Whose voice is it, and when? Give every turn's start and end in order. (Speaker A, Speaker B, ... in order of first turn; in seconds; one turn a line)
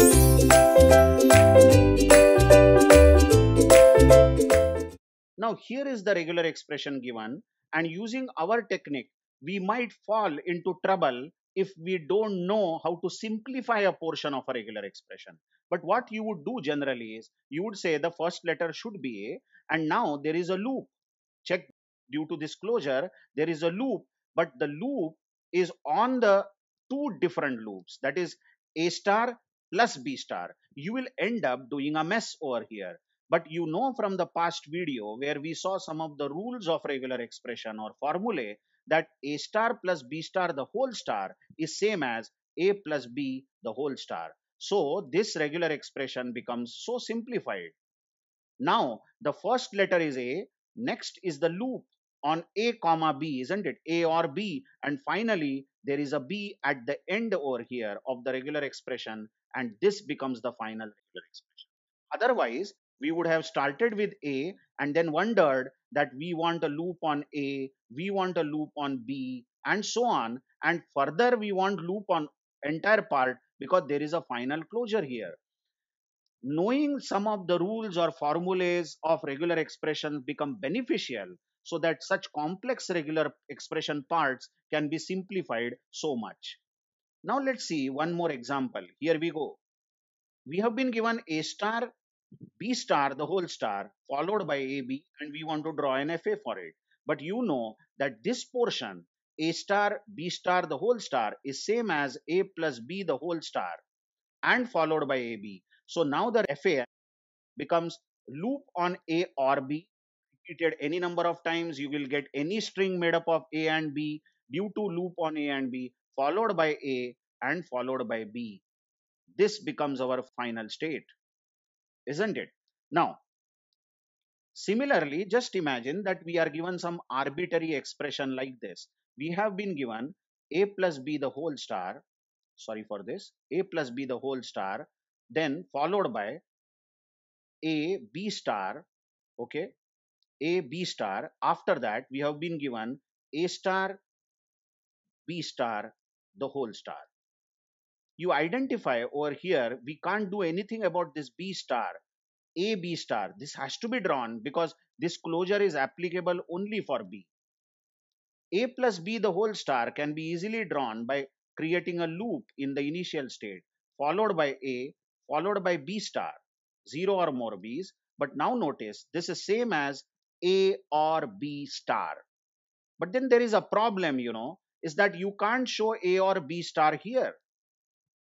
Speaker A: 5.4-20.9
Speaker A: 21.4-47.7
Speaker A: 48.6-75.4
Speaker A: 76.5-86.6
Speaker A: 87.2-89.6
Speaker A: 90.5-91.9
Speaker A: 92.6-103.8
Speaker A: 104.4-106.9
Speaker A: 107.6-109.9
Speaker A: 110.4-118.6
Speaker A: 119.4-121.1
Speaker A: 122.1-123.2
Speaker A: 124.5-132.0
Speaker A: 132.6-136.4
Speaker A: 137.6-138.9
Speaker A: 139.4-139.7
Speaker A: 140.4-144.0
Speaker A: 145.2-147.1
Speaker A: 148.2-152.0
Speaker A: 152.6-157.3
Speaker A: 158.5-172.2
Speaker A: 173.0-177.4